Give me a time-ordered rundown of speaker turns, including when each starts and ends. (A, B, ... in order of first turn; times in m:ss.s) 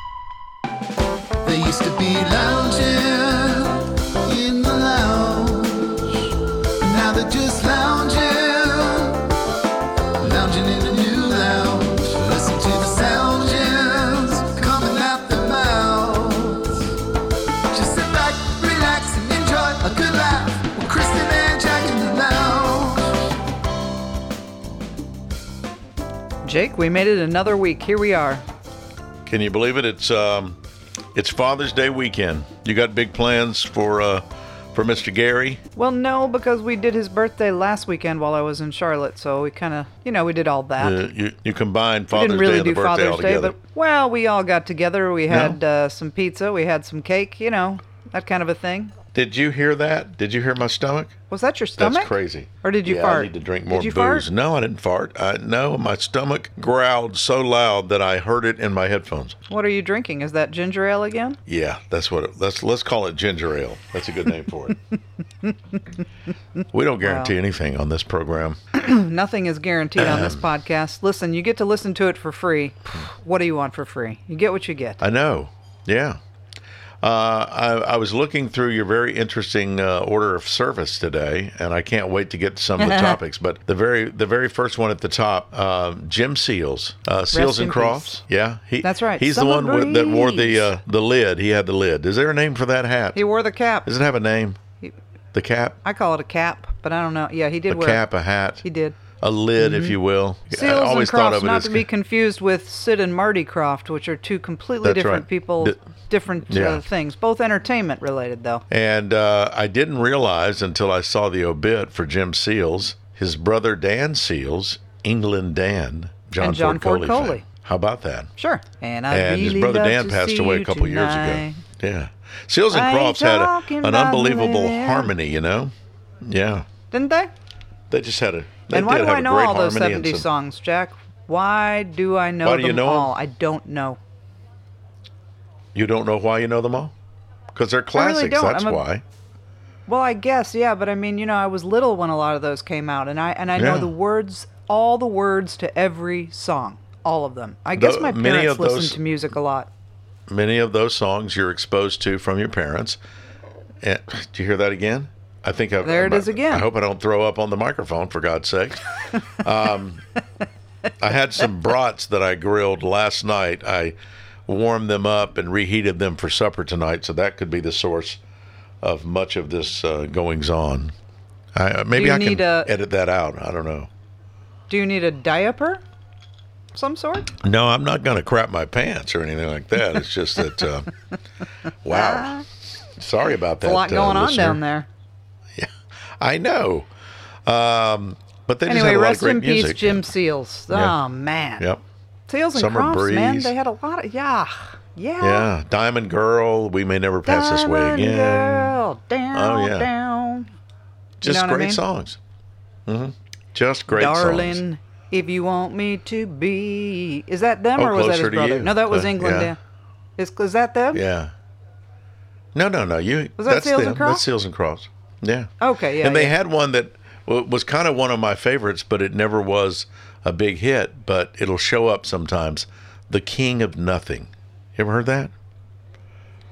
0:01.4-0:06.2 A
0:06.8-0:09.3 A
0:10.2-0:16.9 A
0:17.7-0:23.2 A
0:26.4-0:28.4 B
0:29.3-0:30.6 C
0:31.1-0:35.6 C
0:35.8-0:41.0 B
0:40.8-0:43.6 C
0:42.1-0:49.0 B
0:45.3-0:45.6 C
0:49.1-0:51.2 C
0:51.3-0:54.3 B
0:51.8-0:59.4 C
0:59.5-1:01.4 B
1:01.5-1:04.8 C
1:06.7-1:08.6 C
1:07.0-1:07.3 B
1:08.7-1:15.0 B
1:10.0-1:10.5 C
1:15.0-1:16.2 C
1:17.0-1:33.2 C
1:22.8-1:23.2 B
1:27.3-1:28.2 B
1:28.8-1:30.8 B
1:33.2-1:33.9 B
1:33.8-1:34.6 C
1:35.3-1:35.8 C
1:35.8-1:38.0 B
1:37.7-1:38.6 C
1:38.6-1:39.0 B
1:39.2-1:41.9 C
1:39.6-1:40.0 B
1:40.5-1:48.6 B
1:44.8-1:45.8 C
1:46.5-1:46.8 C
1:48.7-1:58.3 C
1:56.4-1:57.4 B
1:58.4-2:01.6 B
1:59.1-2:06.7 C
2:02.7-2:05.1 B
2:06.9-2:07.3 B
2:07.9-2:10.3 C
2:08.7-2:14.0 B
2:12.4-2:13.1 C
2:15.7-2:16.9 C
2:17.5-2:19.0 C
2:18.0-2:18.8 B
2:19.9-2:29.7 B
2:23.6-2:23.9 C
2:27.8-2:29.0 C
2:30.3-2:33.0 C
2:33.8-2:40.0 C
2:35.8-2:36.7 B
2:41.0-2:44.0 C
2:44.5-2:48.2 C
2:48.8-2:51.0 C
2:51.6-2:53.9 C
2:51.9-2:52.7 B
2:54.7-2:55.8 B
2:56.7-2:57.3 B
2:57.4-3:00.9 C
3:01.8-3:02.4 C
3:01.9-3:02.4 B
3:03.0-3:04.6 C
3:03.6-3:04.9 B
3:05.6-3:06.9 C
3:07.4-3:10.1 C
3:08.7-3:11.7 B
3:10.7-3:11.0 C
3:12.3-3:15.5 B
3:12.5-3:13.5 C
3:15.2-3:18.8 C
3:17.2-3:20.5 B
3:19.3-3:19.9 C
3:21.2-3:22.2 C
3:21.2-3:21.8 B
3:22.9-3:24.6 C
3:23.9-3:29.6 B
3:27.8-3:29.6 C
3:30.2-3:31.0 B
3:30.9-3:31.3 C
3:32.5-3:45.3 C
3:33.4-3:34.2 B
3:35.6-3:36.4 B